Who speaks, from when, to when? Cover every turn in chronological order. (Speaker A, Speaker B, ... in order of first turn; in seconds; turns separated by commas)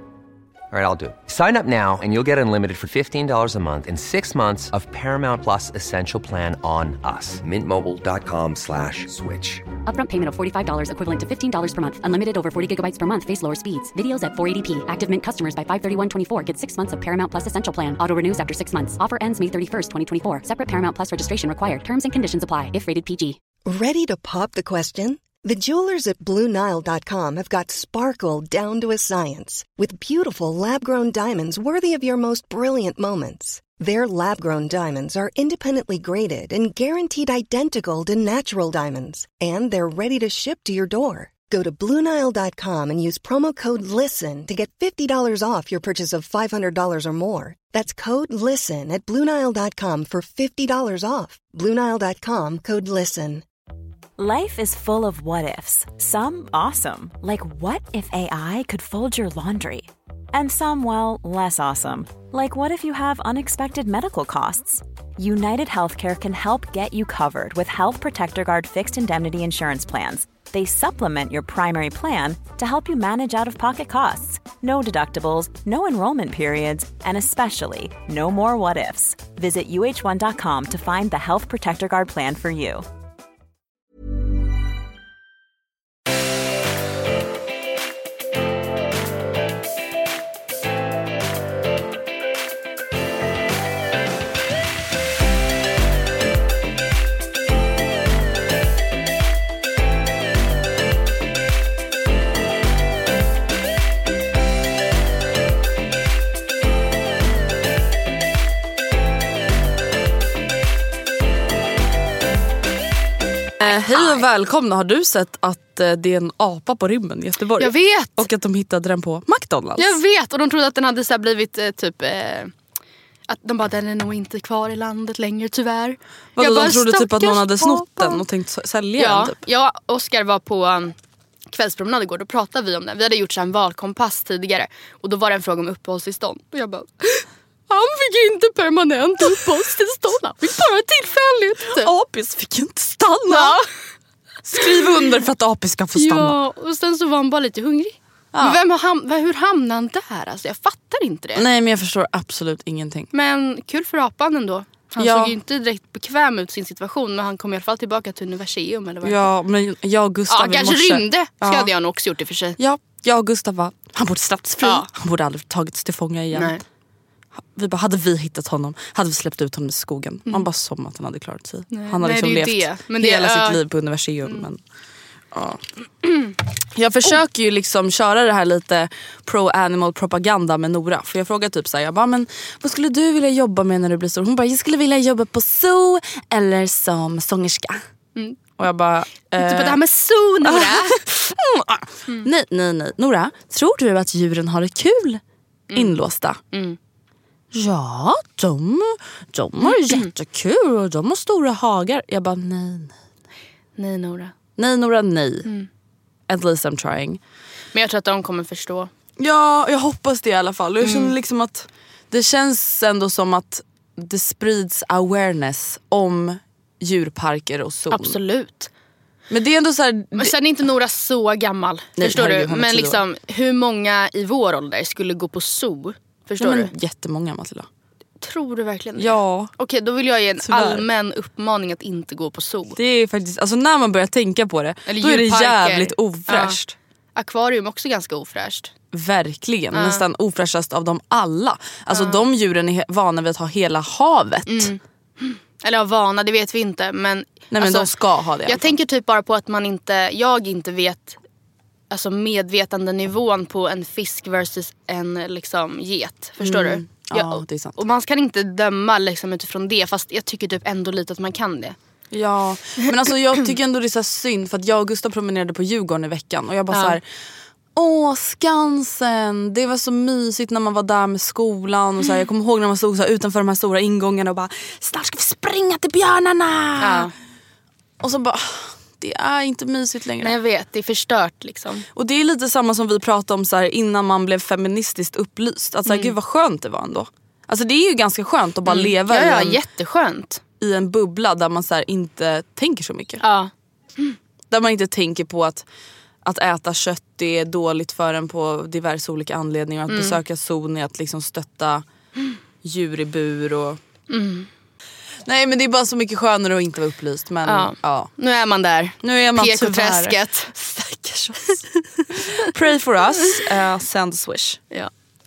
Speaker A: 0.7-9.6, Speaker B: 9.8-23.4, Speaker C: 23.7-53.4, Speaker D: 54.2-82.8, Speaker E: 113.6-120.0, Speaker F: 113.6-114.2, Speaker F: 117.6-118.2, Speaker F: 119.8-122.5, Speaker F: 123.3-128.2, Speaker E: 126.3-129.4, Speaker F: 129.0-130.9, Speaker F: 131.5-141.9, Speaker E: 141.7-143.6, Speaker F: 143.3-143.7, Speaker E: 144.4-146.4, Speaker F: 144.6-144.9, Speaker F: 145.9-151.4, Speaker E: 148.3-148.6, Speaker E: 151.3-153.1, Speaker F: 153.1-159.3, Speaker E: 155.0-155.3, Speaker E: 159.0-161.7, Speaker F: 160.3-162.6, Speaker E: 162.6-166.6, Speaker F: 166.3-166.6, Speaker E: 167.5-174.6, Speaker F: 171.7-173.6, Speaker E: 175.3-175.6, Speaker F: 176.1-176.3, Speaker E: 176.7-187.8, Speaker E: 188.6-189.8, Speaker F: 189.4-191.1, Speaker E: 190.4-195.2, Speaker F: 195.7-196.0, Speaker E: 195.7-196.4, Speaker F: 196.5-196.8, Speaker E: 197.5-202.9, Speaker F: 199.7-200.1, Speaker F: 203.8-204.3, Speaker E: 204.6-205.5, Speaker E: 206.3-207.2, Speaker F: 207.7-208.9, Speaker E: 209.2-218.2, Speaker F: 210.8-211.1, Speaker F: 217.9-218.7, Speaker E: 219.3-220.3, Speaker F: 220.1-226.7, Speaker E: 222.0-223.0, Speaker E: 226.4-227.7, Speaker F: 228.2-232.8, Speaker E: 229.0-229.5, Speaker E: 230.4-230.8, Speaker E: 232.7-236.8, Speaker F: 234.9-236.6, Speaker F: 237.2-238.7, Speaker E: 238.9-244.7, Speaker F: 239.7-240.0, Speaker F: 241.9-242.2, Speaker F: 244.5-247.9, Speaker E: 247.5-248.7, Speaker F: 248.4-251.2, Speaker F: 251.9-261.8, Speaker E: 256.4-257.8, Speaker E: 262.1-267.0, Speaker F: 266.7-267.0, Speaker E: 267.8-277.1, Speaker F: 276.8-277.1, Speaker E: 278.0-280.3, Speaker F: 280.2-281.9, Speaker E: 281.9-289.6, Speaker F: 285.9-286.1, Speaker F: 288.6-290.4, Speaker E: 290.6-293.2, Speaker F: 293.2-294.1, Speaker E: 294.5-295.6, Speaker E: 296.2-301.8, Speaker F: 299.9-300.2, Speaker E: 302.6-303.8, Speaker F: 304.1-304.5, Speaker E: 305.2-308.1, Speaker F: 307.4-310.5, Speaker E: 309.0-314.6